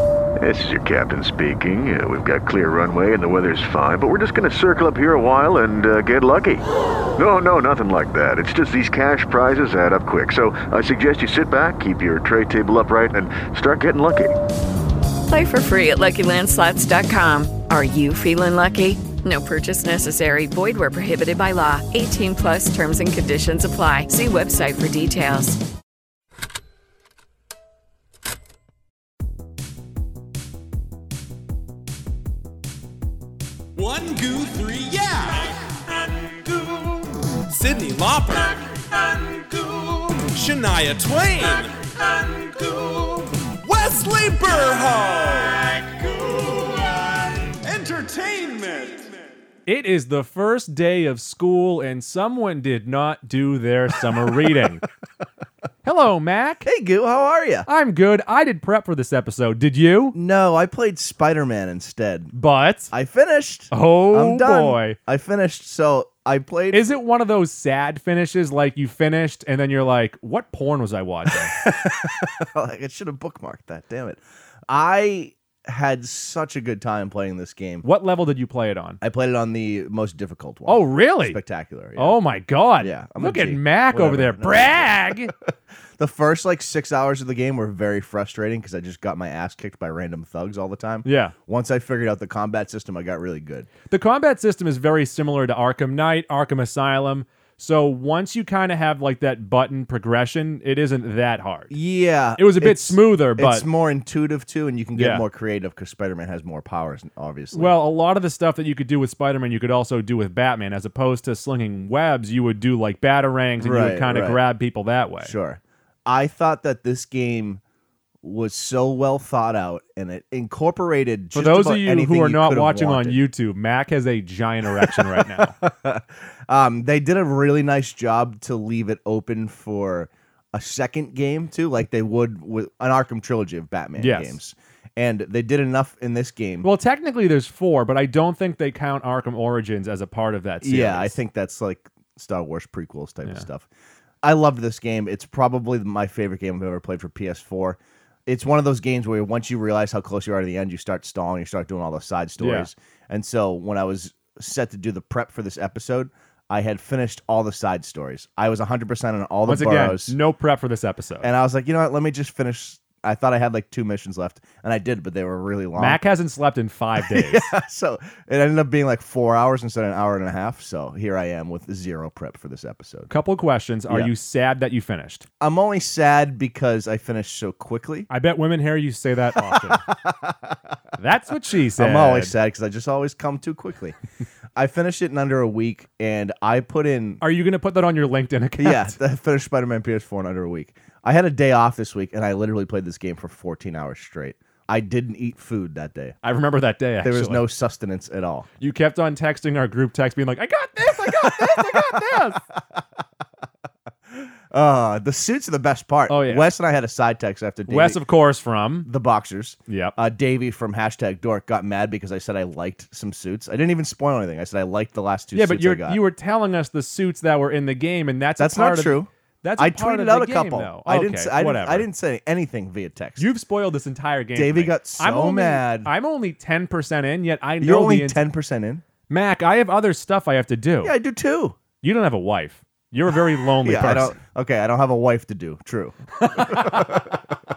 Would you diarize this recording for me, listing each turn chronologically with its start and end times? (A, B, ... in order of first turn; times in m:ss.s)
0:00.4-0:06.6 A
0:07.2-0:14.3 A
0:15.3-0:25.6 B
0:33.8-0:49.2 C
0:49.6-0:54.8 D
0:55.8-0:56.6 D
0:56.6-0:57.7 E
0:57.7-1:00.2 D
1:00.1-1:02.3 E
1:02.3-1:02.9 D
1:02.9-1:06.9 E
1:03.7-1:05.0 D
1:06.7-1:11.5 D
1:11.3-1:17.8 E
1:17.8-1:19.0 D
1:19.0-1:22.2 E
1:20.7-1:21.4 D
1:22.0-1:25.3 D
1:22.8-1:25.3 E
1:26.0-1:33.7 E
1:31.0-1:31.3 D
1:33.9-1:41.7 D
1:41.7-1:47.7 E
1:42.4-1:43.6 D
1:44.9-1:45.2 D
1:47.5-1:55.3 D
1:53.6-1:54.4 E
1:55.2-1:57.6 E
1:58.2-2:03.2 E
2:01.3-2:05.5 D
2:04.8-2:16.7 E
2:14.0-2:14.4 D
2:16.6-2:21.2 D
2:20.6-2:23.7 E
2:24.2-2:40.2 E
2:32.4-2:32.7 D
2:39.4-2:41.3 D
2:41.2-2:46.0 E
2:45.8-2:47.4 D
2:47.0-2:53.1 E
2:53.1-2:55.2 D
2:55.4-2:58.1 E
2:58.1-2:59.9 D
2:59.5-3:00.6 E
3:01.0-3:02.3 D
3:01.8-3:04.0 E
3:04.6-3:07.2 E
3:07.2-3:09.0 D
3:08.6-3:16.1 E
3:16.2-3:17.4 D
3:17.0-3:18.5 E
3:18.6-3:22.4 D
3:21.0-3:22.8 E
3:24.1-3:28.0 E
3:26.1-3:26.5 D
3:27.7-3:28.9 D
3:28.8-3:36.0 E
3:29.7-3:30.0 D
3:35.3-3:41.9 D
3:38.4-3:43.3 E
3:43.2-3:48.3 D
3:44.3-3:45.9 E
3:47.6-3:48.8 E
3:49.1-3:50.9 D
3:50.8-3:51.6 E
3:51.8-3:54.2 D
3:53.6-3:57.2 E
3:56.2-3:57.2 D